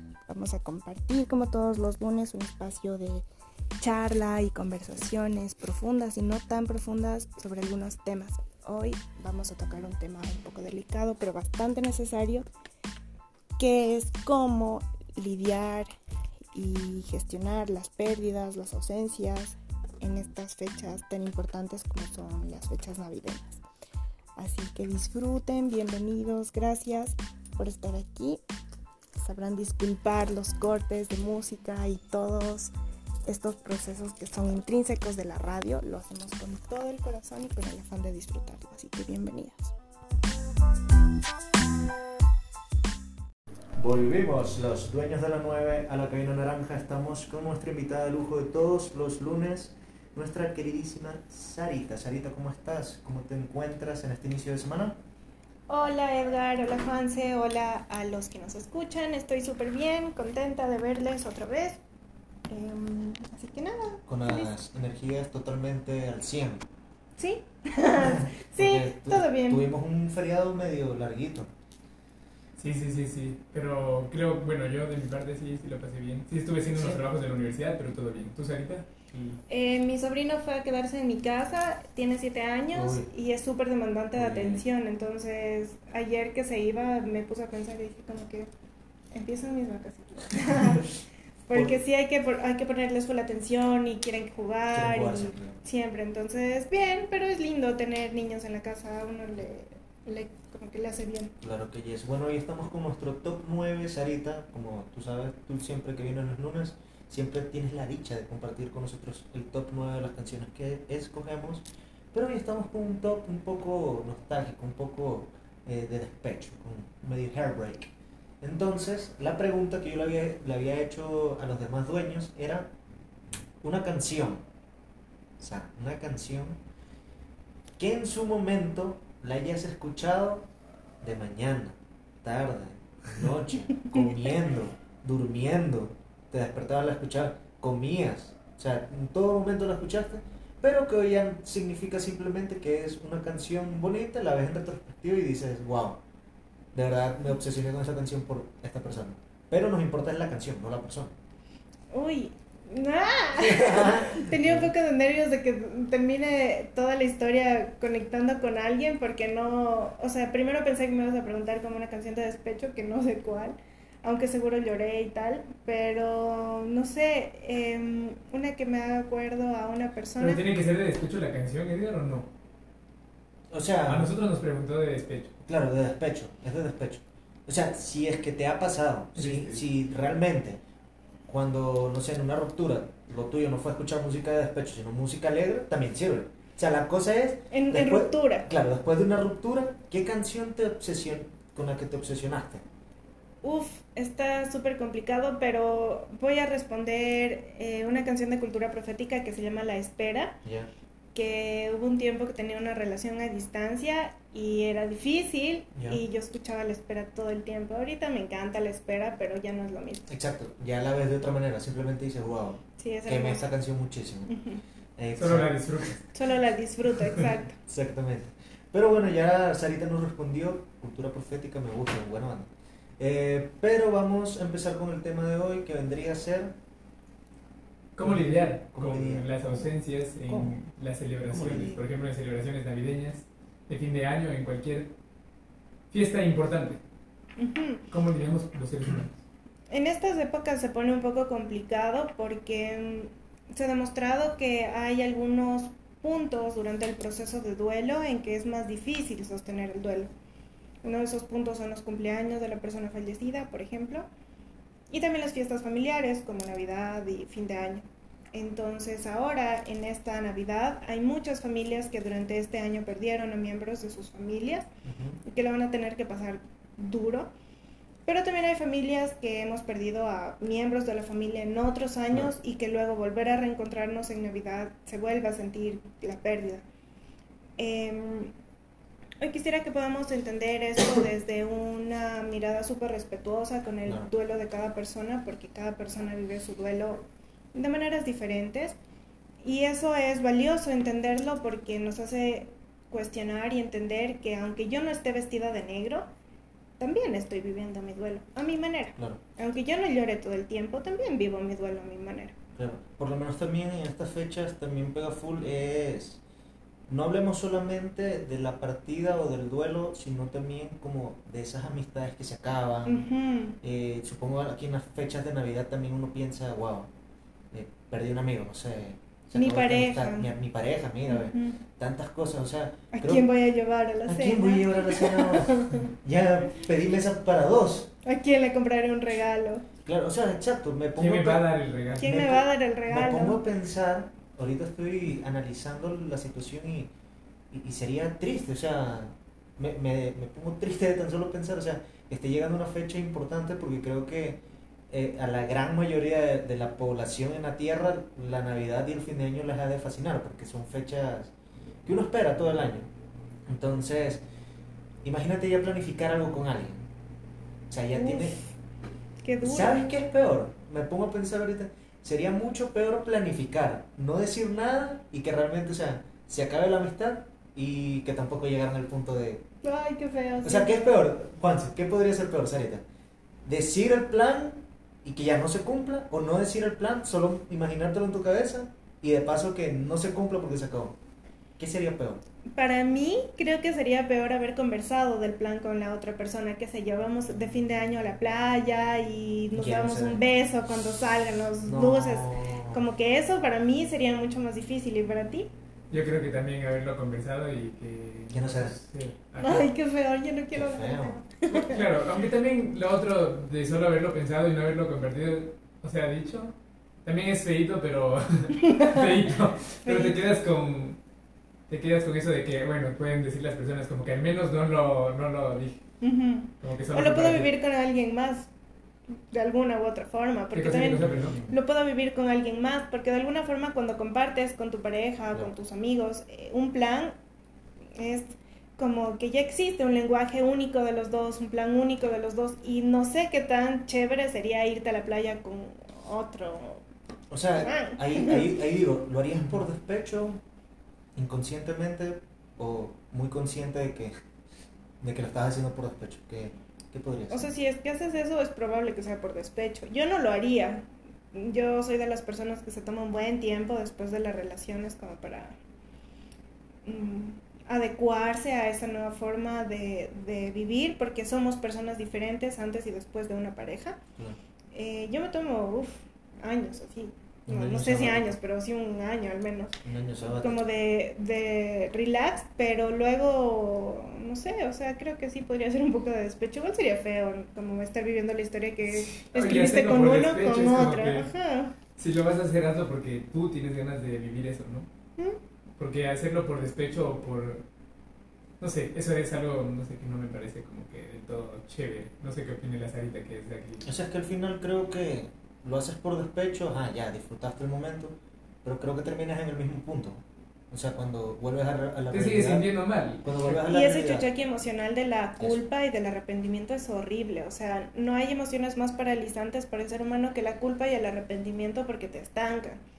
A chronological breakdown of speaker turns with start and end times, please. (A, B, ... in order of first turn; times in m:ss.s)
0:00.3-0:03.2 A
0:03.8-0:12.4 A
0:13.6-0:15.9 A
0:16.5-0:23.6 A
0:24.4-0:28.4 A
0:29.2-0:32.7 A
0:33.2-0:39.7 A
0:43.8-0:55.0 B
0:55.7-1:01.8 A
1:02.5-1:04.5 A
1:04.1-1:06.6 B
1:07.2-1:09.6 A
1:08.0-1:11.5 B
1:12.6-1:19.4 C
1:16.7-1:17.0 B
1:19.5-1:28.5 A
1:22.7-1:23.1 B
1:24.2-1:24.6 B
1:29.1-1:41.3 A
1:34.7-1:35.6 B
1:41.4-1:57.9 B
1:58.4-2:02.7 B
2:03.6-2:04.4 B
2:05.4-2:06.6 B
2:07.8-2:10.4 B
2:11.0-2:26.0 B
2:13.7-2:14.3 A
2:26.7-2:31.1 B
2:31.9-2:50.4 A
2:33.4-2:34.7 B
2:50.2-2:52.3 C
2:53.5-2:54.1 B
2:53.9-2:55.3 C
2:55.4-3:00.6 B
2:59.1-2:59.6 C
3:01.3-3:12.6 B
3:07.5-3:08.5 A
3:13.4-3:20.4 A
3:20.4-3:20.7 B
3:21.1-3:30.1 A
3:25.8-3:26.0 B
3:30.1-3:34.3 B
3:32.8-3:33.5 A
3:34.3-3:34.6 A
3:35.0-3:35.9 B
3:35.2-3:36.1 C
3:36.1-3:37.6 A
3:37.7-3:46.5 B
3:48.0-3:54.9 C
3:48.0-3:49.7 B
3:50.2-3:50.5 B
3:51.2-3:51.8 B
3:55.9-3:56.8 C
3:57.4-3:57.8 A
3:57.9-3:59.2 C
3:59.7-4:10.1 A
4:10.8-4:14.0 A
4:14.9-4:24.7 A
4:24.8-4:25.2 B
4:25.2-4:27.3 A
4:28.0-4:36.6 A
4:37.6-4:38.3 A
4:39.2-4:48.8 A
4:43.8-4:44.1 B
4:49.4-4:56.0 A
4:56.8-5:02.3 A
5:02.6-5:06.2 B
5:06.9-5:13.1 B
5:12.8-5:13.6 A
5:13.6-5:16.9 B
5:17.5-5:23.3 B
5:19.3-5:20.3 A
5:21.1-5:21.6 A
5:22.9-5:25.9 A
5:24.0-5:27.9 B
5:28.0-5:29.6 A
5:29.8-5:36.9 B
5:31.0-5:32.1 C
5:32.0-5:33.4 A
5:37.5-5:51.3 B
5:51.8-5:52.9 B
5:53.5-5:54.2 B
5:55.0-5:56.8 B
5:57.7-5:58.4 B
5:57.9-5:58.5 A
5:59.2-5:59.9 A
5:59.4-6:09.4 B
6:09.6-6:10.9 A
6:10.4-6:12.8 B
6:13.4-6:21.0 B
6:21.6-6:22.2 B
6:22.5-6:35.5 A
6:29.5-6:30.2 B
6:31.6-6:32.8 B
6:35.9-6:39.7 C
6:38.3-6:38.7 B
6:39.4-6:41.8 A
6:40.5-6:41.2 B
6:41.5-6:46.5 C
6:47.0-6:51.0 C
6:48.7-6:49.0 A
6:49.8-6:50.2 A
6:51.7-6:55.8 C
6:56.0-6:58.5 A
6:56.6-6:57.5 C
6:59.1-7:07.1 A
7:00.5-7:01.4 C
7:01.1-7:01.6 B
7:07.9-7:16.8 A
7:17.3-7:20.4 B
7:17.6-7:18.5 A
7:21.2-7:24.1 B
7:25.0-7:27.5 B
7:27.3-7:35.6 A
7:36.8-7:44.0 A
7:44.7-8:01.7 A
7:47.5-7:48.4 B
7:49.8-7:50.6 B
7:58.9-8:01.3 C
8:02.0-8:04.9 C
8:05.8-8:07.6 C
8:08.6-8:13.9 C
8:13.8-8:22.7 B
8:22.1-8:23.6 C
8:23.2-8:24.3 B
8:23.6-8:32.8 A